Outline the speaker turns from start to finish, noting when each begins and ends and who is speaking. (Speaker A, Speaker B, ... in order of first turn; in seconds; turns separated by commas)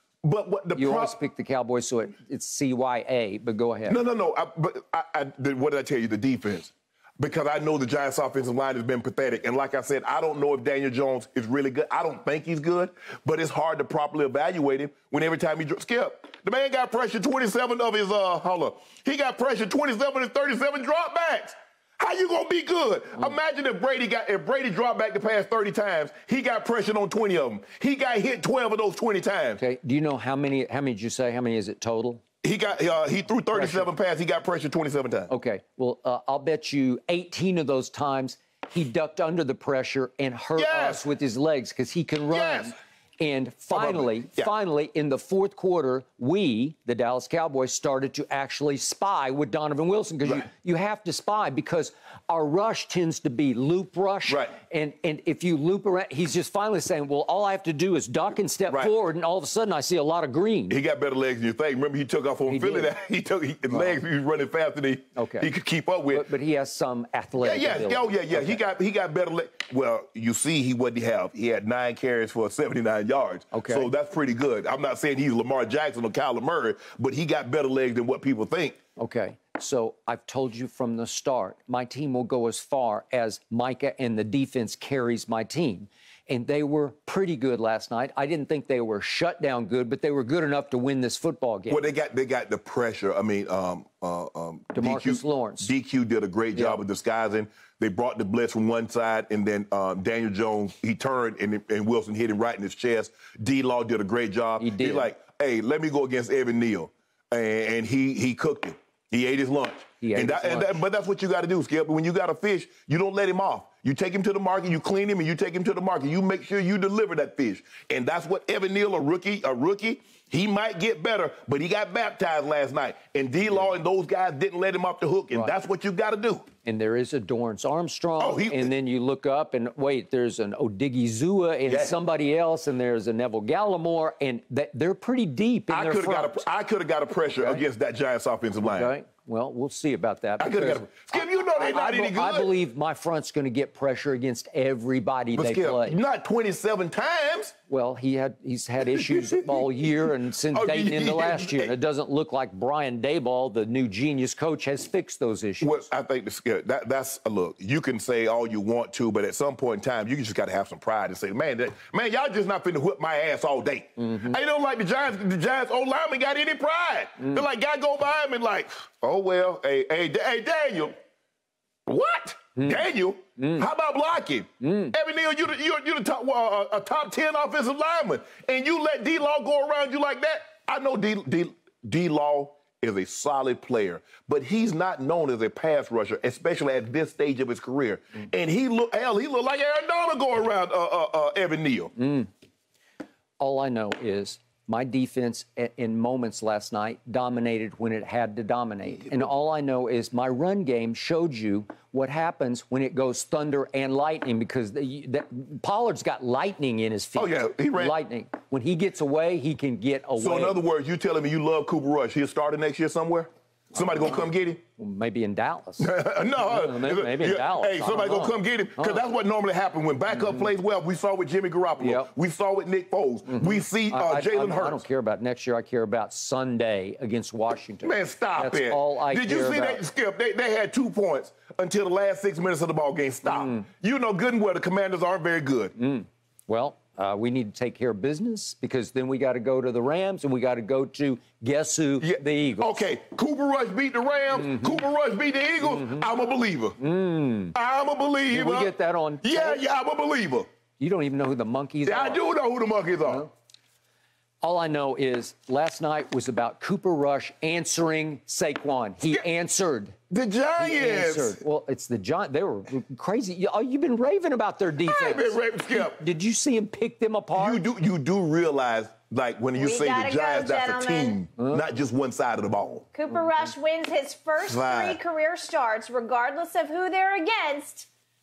Speaker A: 0.2-1.1, Speaker B: 0.7-4.0, Speaker A: 3.9-29.6, Speaker B: 29.6-32.2, Speaker A: 32.4-35.3, Speaker B: 33.5-33.9, Speaker B: 35.3-60.8, Speaker A: 40.5-41.0, Speaker A: 42.3-42.8, Speaker A: 43.7-44.5, Speaker A: 54.3-54.5, Speaker A: 58.7-58.9, Speaker A: 60.7-66.2, Speaker B: 62.5-62.9, Speaker B: 63.7-64.0, Speaker B: 65.2-65.5, Speaker B: 66.1-68.6, Speaker A: 67.4-78.8, Speaker B: 73.5-73.9, Speaker B: 79.0-91.8, Speaker A: 91.7-126.5, Speaker B: 94.7-95.7, Speaker B: 96.5-96.8, Speaker B: 104.6-105.1, Speaker B: 110.0-110.8, Speaker B: 126.6-136.5, Speaker A: 128.2-128.7, Speaker A: 131.7-132.0, Speaker A: 135.7-138.9, Speaker B: 137.2-137.6, Speaker B: 138.6-146.0, Speaker A: 140.4-142.6, Speaker A: 145.3-147.5, Speaker B: 147.7-155.8, Speaker A: 148.9-149.6, Speaker A: 150.5-151.7, Speaker A: 155.6-170.9, Speaker B: 164.1-164.3, Speaker A: 171.8-191.9, Speaker B: 173.4-173.6, Speaker B: 174.6-174.9, Speaker B: 192.0-192.3, Speaker B: 193.4-210.6, Speaker A: 207.2-207.9, Speaker A: 210.2-214.6, Speaker B: 213.8-214.2, Speaker B: 214.8-219.0, Speaker A: 215.8-224.8, Speaker B: 220.1-220.5, Speaker B: 221.8-222.1, Speaker B: 223.3-229.8, Speaker A: 227.8-235.7, Speaker B: 233.2-233.6, Speaker B: 235.8-242.9, Speaker A: 242.0-246.8, Speaker B: 244.3-244.8, Speaker B: 245.6-246.1, Speaker B: 246.8-247.5, Speaker A: 247.5-250.5, Speaker B: 248.3-249.6, Speaker B: 250.8-252.2, Speaker A: 251.8-253.3, Speaker B: 253.0-253.3, Speaker B: 254.4-259.9, Speaker A: 260.1-261.4, Speaker B: 260.6-267.6, Speaker A: 264.8-266.0, Speaker A: 267.3-272.9, Speaker C: 269.6-271.2, Speaker C: 272.9-277.9, Speaker A: 274.4-275.0